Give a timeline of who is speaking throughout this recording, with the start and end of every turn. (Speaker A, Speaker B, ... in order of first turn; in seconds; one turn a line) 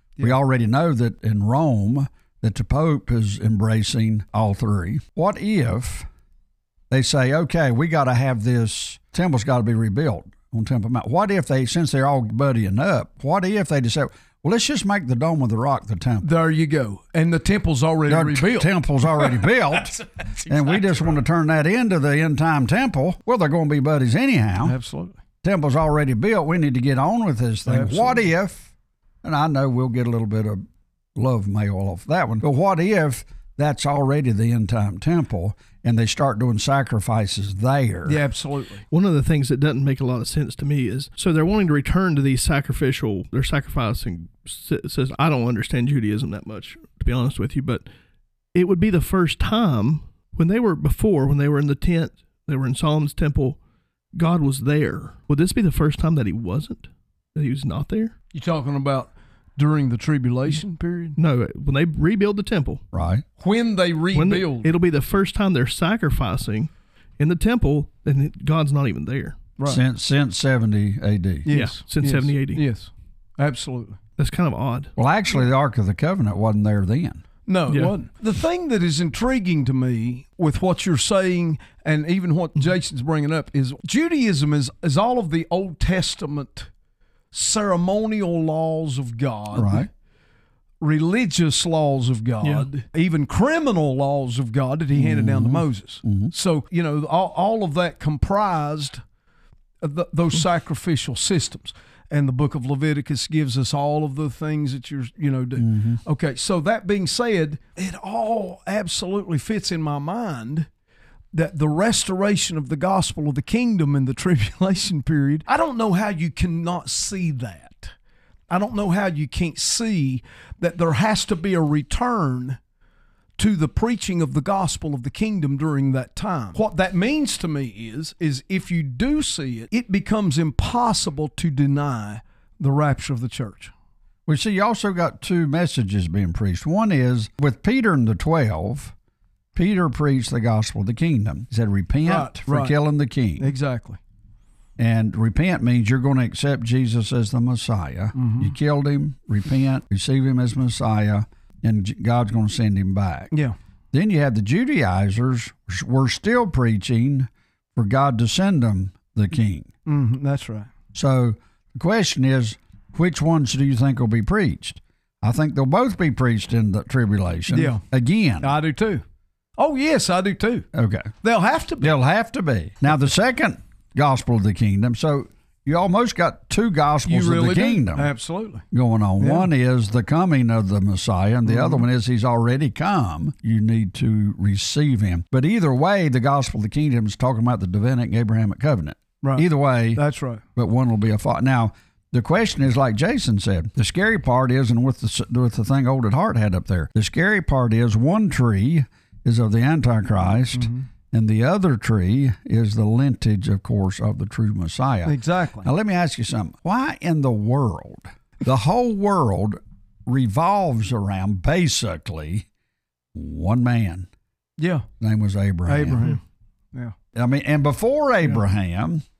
Speaker A: 0.2-6.1
Speaker A: 6.9-16.3
Speaker B: 16.2-21.2
Speaker A: 18.1-24.8
Speaker B: 24.6-25.2
Speaker A: 25.4-28.7
Speaker B: 27.6-28.3
Speaker A: 29.2-30.6
Speaker A: 31.1-38.2
Speaker B: 38.0-38.8
Speaker C: 38.9-47.8
Speaker C: 48.5-53.6
Speaker C: 54.1-58.1
Speaker B: 58.3-61.2
Speaker C: 61.2-62.8
Speaker A: 62.9-63.2
Speaker B: 63.4-64.7
Speaker C: 64.1-69.4
Speaker B: 69.6-69.8
Speaker A: 69.7-71.5
Speaker B: 71.5-74.0
Speaker C: 71.5-72.6
Speaker C: 74.2-74.9
Speaker A: 75.0-77.2
Speaker B: 77.5-86.7
Speaker B: 87.3-89.9
Speaker A: 89.5-89.9
Speaker B: 90.8-99.0
Speaker A: 95.0-96.3
Speaker B: 99.8-110.7
Speaker A: 105.6-106.0
Speaker B: 111.3-117.9
Speaker B: 118.5-122.6
Speaker B: 123.4-133.7
Speaker A: 134.3-138.9
Speaker A: 139.5-143.5
Speaker B: 142.0-142.8
Speaker B: 143.4-144.0
Speaker A: 144.8-153.3
Speaker B: 148.1-148.5
Speaker A: 153.9-159.7
Speaker B: 159.8-160.7
Speaker A: 160.9-168.5
Speaker B: 167.5-167.8
Speaker B: 168.4-169.0
Speaker B: 169.6-170.7
Speaker A: 170.7-171.1
Speaker B: 171.2-171.9
Speaker A: 171.8-178.1
Speaker B: 177.1-178.6
Speaker A: 178.7-190.0
Speaker B: 179.2-179.5
Speaker B: 181.4-181.8
Speaker B: 189.2-190.4
Speaker A: 190.5-212.4
Speaker B: 200.5-200.9
Speaker B: 205.0-205.7
Speaker A: 213.1-214.1
Speaker B: 214.6-214.8
Speaker A: 215.0-216.1
Speaker B: 215.7-216.2
Speaker A: 217.1-219.0